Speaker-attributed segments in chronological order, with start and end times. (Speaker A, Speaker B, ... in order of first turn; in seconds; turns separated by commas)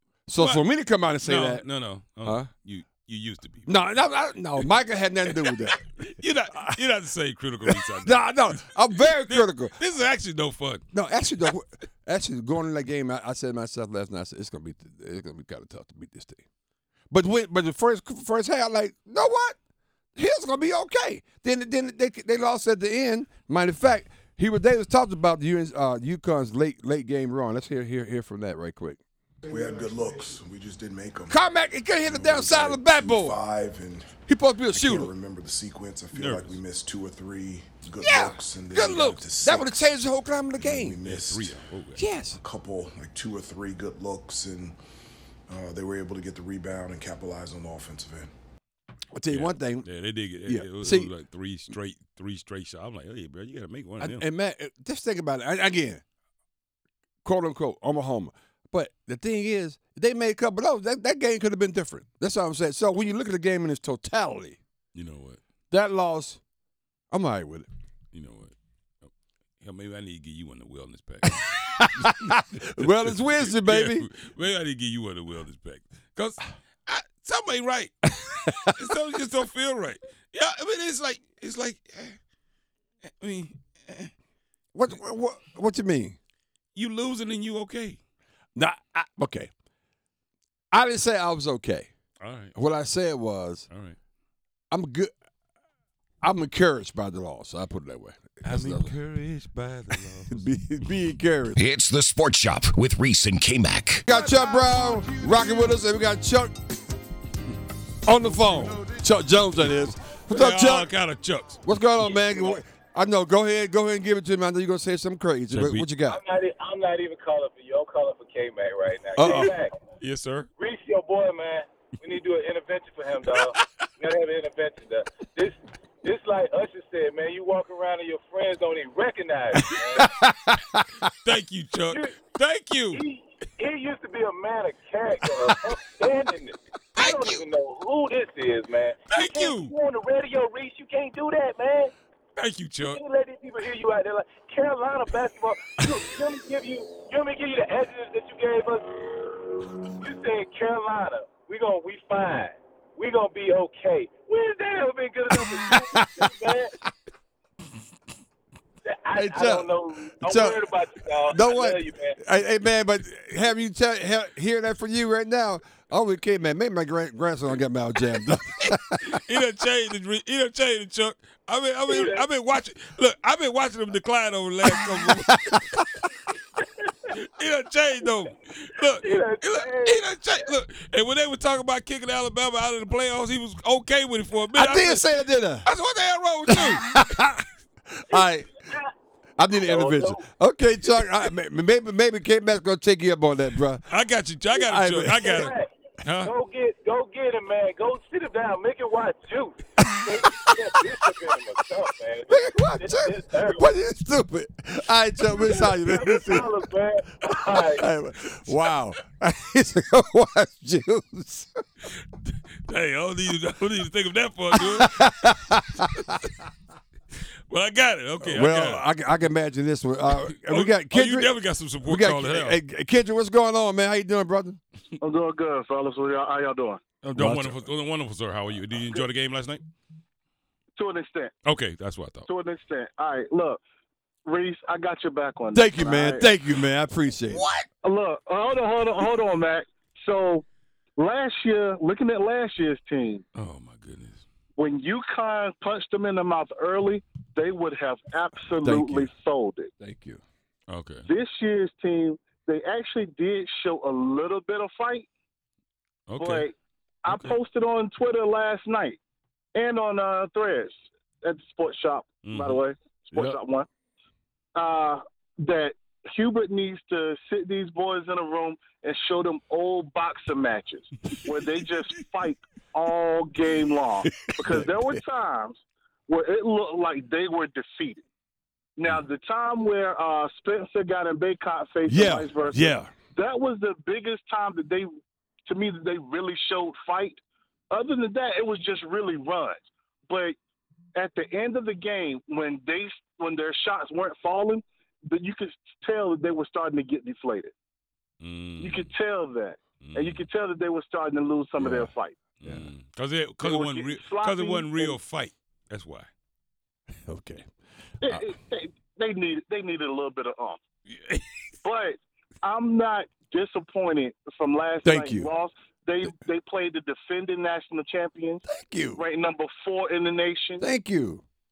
Speaker A: 0.3-1.6, Speaker B: 0.3-0.7, Speaker B: 1.2-4.0, Speaker A: 2.2-2.5, Speaker A: 3.7-5.9, Speaker B: 5.3-10.8, Speaker A: 7.7-9.7, Speaker A: 10.9-16.4, Speaker A: 17.1-19.6, Speaker A: 20.1-29.0, Speaker C: 29.4-31.4, Speaker A: 31.3-33.4, Speaker C: 32.0-34.2, Speaker A: 34.2-35.1, Speaker C: 34.7-39.8, Speaker B: 36.1-36.6, Speaker A: 38.0-41.0, Speaker C: 40.5-41.6, Speaker B: 41.0-42.1, Speaker A: 42.0-42.4, Speaker C: 42.4-44.8, Speaker C: 45.5-48.3, Speaker A: 49.1-49.9, Speaker B: 49.3-54.2, Speaker A: 50.4-51.1, Speaker A: 54.0-56.0, Speaker A: 57.2-64.6, Speaker B: 64.9-65.4, Speaker A: 65.7-66.4, Speaker A: 67.1-67.7, Speaker B: 68.1-82.2, Speaker A: 71.8-74.1, Speaker B: 83.0-84.1, Speaker A: 84.7-86.2, Speaker B: 86.7-88.0, Speaker A: 88.5-89.5, Speaker A: 90.7-91.9, Speaker B: 92.2-92.5, Speaker A: 92.5-93.7, Speaker B: 93.7-94.0, Speaker A: 94.7-95.1, Speaker A: 96.2-98.9, Speaker B: 98.4-100.5, Speaker A: 100.3-101.6, Speaker D: 101.5-104.0, Speaker A: 104.1-106.5, Speaker A: 108.0-110.9, Speaker B: 110.3-111.6, Speaker A: 111.6-116.2, Speaker B: 115.5-115.9, Speaker E: 116.1-119.7, Speaker A: 119.2-119.6, Speaker B: 120.0-120.5, Speaker E: 120.6-130.1, Speaker A: 130.0-131.1, Speaker B: 131.1-133.0, Speaker E: 132.9-141.9, Speaker B: 137.0-137.4, Speaker B: 139.1-139.7, Speaker B: 142.3-143.0, Speaker E: 142.8-156.7, Speaker A: 155.7-156.3, Speaker E: 158.8-162.2, Speaker A: 159.1-159.7, Speaker A: 160.2-160.7, Speaker A: 161.2-169.2, Speaker B: 168.6-175.8, Speaker E: 171.9-172.2, Speaker A: 175.0-175.8, Speaker E: 176.6-176.9, Speaker B: 177.1-185.1, Speaker E: 179.0-180.0, Speaker A: 184.5-185.7, Speaker B: 185.6-186.8, Speaker A: 186.5-188.5, Speaker E: 188.6-188.9, Speaker A: 189.4-193.8, Speaker E: 189.5-190.2, Speaker B: 193.9-196.3, Speaker A: 194.6-195.4, Speaker E: 195.2-203.7, Speaker A: 199.9-200.5, Speaker A: 202.3-206.6, Speaker E: 205.4-207.8, Speaker A: 207.5-211.5, Speaker B: 211.9-215.3, Speaker A: 214.5-215.9, Speaker B: 215.8-216.3, Speaker B: 217.5-218.9, Speaker A: 218.2-224.6, Speaker B: 220.1-222.6, Speaker F: 225.0-226.8, Speaker B: 227.0-229.6, Speaker A: 227.1-227.6, Speaker F: 230.7-231.3, Speaker B: 231.4-232.3, Speaker F: 232.2-233.6, Speaker F: 234.2-236.3, Speaker A: 235.5-237.5, Speaker B: 237.3-237.7, Speaker F: 237.8-240.4, Speaker F: 241.0-243.2, Speaker B: 243.3-244.2, Speaker F: 244.6-249.7, Speaker A: 248.6-249.1, Speaker A: 249.8-250.2, Speaker B: 250.7-251.1, Speaker F: 251.1-255.1, Speaker B: 256.1-256.5, Speaker F: 256.2-256.5, Speaker F: 257.0-259.0, Speaker B: 257.1-257.4, Speaker F: 259.5-263.7, Speaker B: 262.2-262.6, Speaker F: 264.5-278.0, Speaker A: 274.4-275.0, Speaker F: 278.8-284.9, Speaker A: 281.9-282.9, Speaker F: 285.4-290.4, Speaker F: 290.9-297.5, Speaker B: 298.2-298.9, Speaker F: 298.6-302.2, Speaker B: 299.8-300.2, Speaker A: 301.6-301.9, Speaker B: 302.4-306.1, Speaker F: 303.4-305.0, Speaker A: 307.1-307.5, Speaker F: 308.0-310.6, Speaker B: 310.9-311.2, Speaker F: 311.6-318.4, Speaker A: 314.8-315.3, Speaker A: 318.5-319.0, Speaker F: 318.9-320.6, Speaker A: 320.6-321.2